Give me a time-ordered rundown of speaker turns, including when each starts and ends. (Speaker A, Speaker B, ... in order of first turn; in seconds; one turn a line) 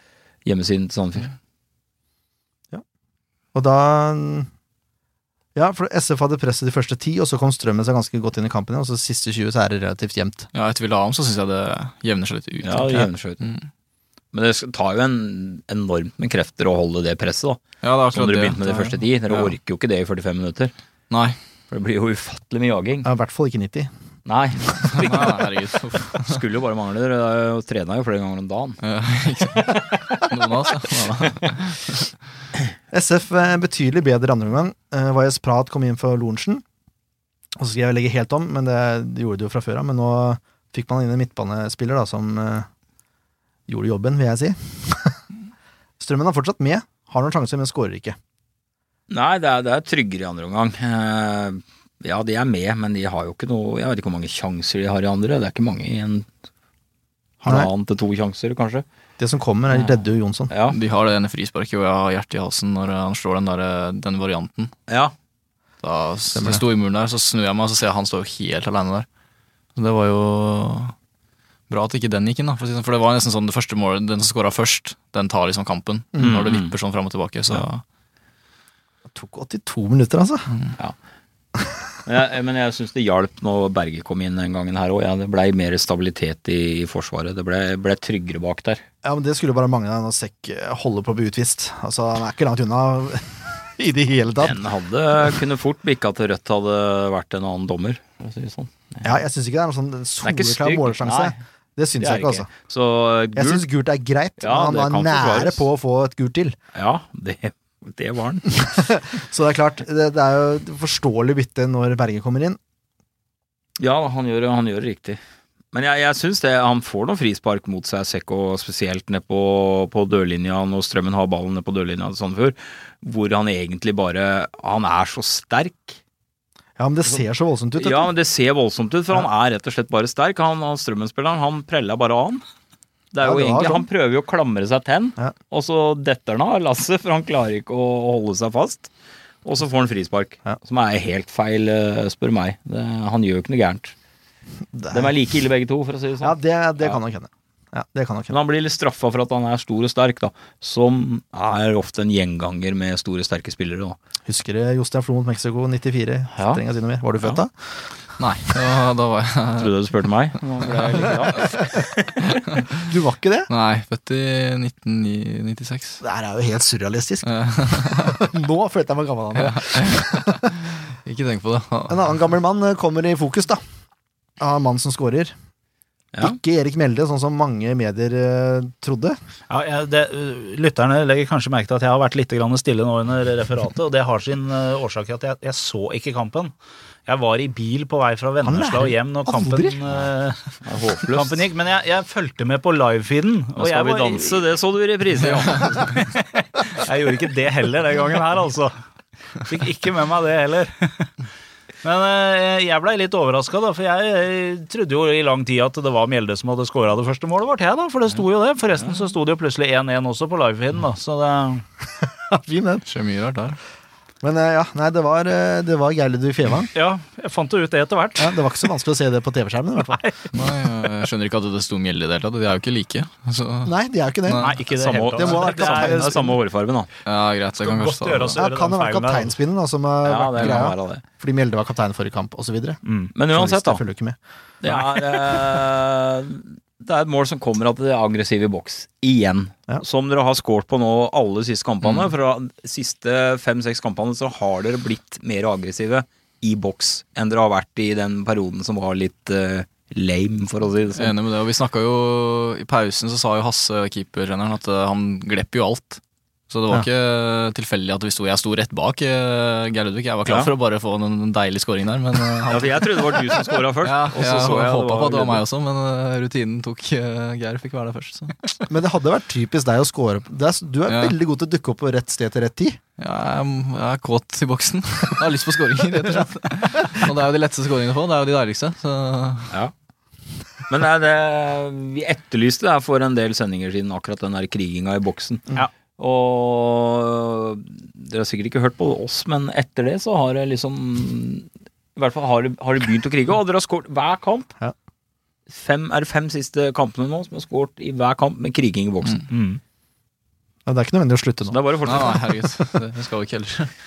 Speaker A: 0.5-1.3
Speaker B: 3.5-4.5
Speaker B: 5.5-10.5
Speaker C: 10.5-13.7
Speaker A: 12.6-13.4
Speaker A: 14.3-17.6
Speaker C: 17.8-19.5
Speaker A: 18.1-20.7
Speaker C: 21.1-21.4
Speaker A: 21.7-23.1
Speaker B: 23.1-23.9
Speaker A: 24.2-25.5
Speaker C: 24.9-26.4
Speaker A: 26.1-28.8
Speaker C: 28.8-32.1
Speaker B: 32.9-36.6
Speaker B: 37.6-42.7
Speaker B: 43.7-45.2
Speaker B: 46.0-48.2
Speaker A: 49.1-56.3
Speaker A: 57.4-58.9
Speaker B: 59.2-60.5
Speaker A: 60.5-60.8
Speaker C: 60.7-64.7
Speaker A: 64.9-65.1
Speaker C: 65.8-69.1
Speaker B: 66.4-66.6
Speaker C: 69.8-71.0
Speaker C: 71.7-77.8
Speaker A: 76.2-76.7
Speaker B: 79.1-80.5
Speaker A: 82.1-88.8
Speaker B: 89.0-94.6
Speaker A: 94.4-99.1
Speaker B: 99.0-102.5
Speaker A: 100.2-101.4
Speaker A: 102.0-103.7
Speaker B: 103.3-106.6
Speaker A: 104.4-105.6
Speaker A: 106.8-108.5
Speaker B: 108.7-112.6
Speaker A: 113.8-115.2
Speaker A: 115.7-126.0
Speaker B: 126.8-128.1
Speaker A: 127.8-132.4
Speaker A: 133.1-138.9
Speaker B: 133.2-133.9
Speaker A: 139.4-143.9
Speaker B: 144.7-145.1
Speaker A: 144.9-147.0
Speaker B: 146.2-148.4
Speaker A: 148.3-154.0
Speaker B: 154.3-157.5
Speaker C: 158.2-159.8
Speaker A: 159.6-162.4
Speaker B: 162.8-163.5
Speaker C: 163.5-166.0
Speaker B: 166.0-170.5
Speaker C: 167.2-168.2
Speaker C: 169.4-170.5
Speaker C: 171.0-172.0
Speaker B: 171.9-173.6
Speaker B: 174.4-175.3
Speaker B: 176.2-179.2
Speaker D: 179.5-186.5
Speaker D: 187.1-190.4
Speaker B: 188.4-189.8
Speaker A: 190.7-191.4
Speaker D: 191.1-194.4
Speaker A: 193.6-195.9
Speaker C: 195.5-195.8
Speaker D: 195.9-198.7
Speaker D: 199.4-201.1
Speaker D: 201.8-211.6
Speaker B: 212.3-212.8
Speaker C: 212.9-213.6
Speaker B: 214.2-216.7
Speaker D: 216.7-218.4
Speaker B: 218.2-220.1
Speaker C: 220.3-223.7
Speaker B: 223.7-224.6
Speaker C: 224.2-224.6
Speaker D: 224.4-226.2
Speaker A: 224.7-226.9
Speaker B: 225.2-226.4
Speaker C: 227.1-228.4
Speaker D: 227.6-229.3
Speaker B: 228.4-234.2
Speaker A: 230.1-231.0
Speaker D: 232.8-233.1
Speaker A: 233.2-233.8
Speaker A: 234.6-251.1
Speaker C: 250.9-268.5
Speaker A: 260.3-260.5
Speaker A: 262.4-265.4
Speaker B: 268.7-272.8
Speaker C: 270.9-271.2
Speaker C: 273.0-279.5
Speaker A: 280.7-294.5
Speaker A: 295.5-299.3
Speaker D: 299.3-299.6
Speaker B: 300.7-301.6
Speaker A: 301.5-302.3
Speaker C: 301.9-303.7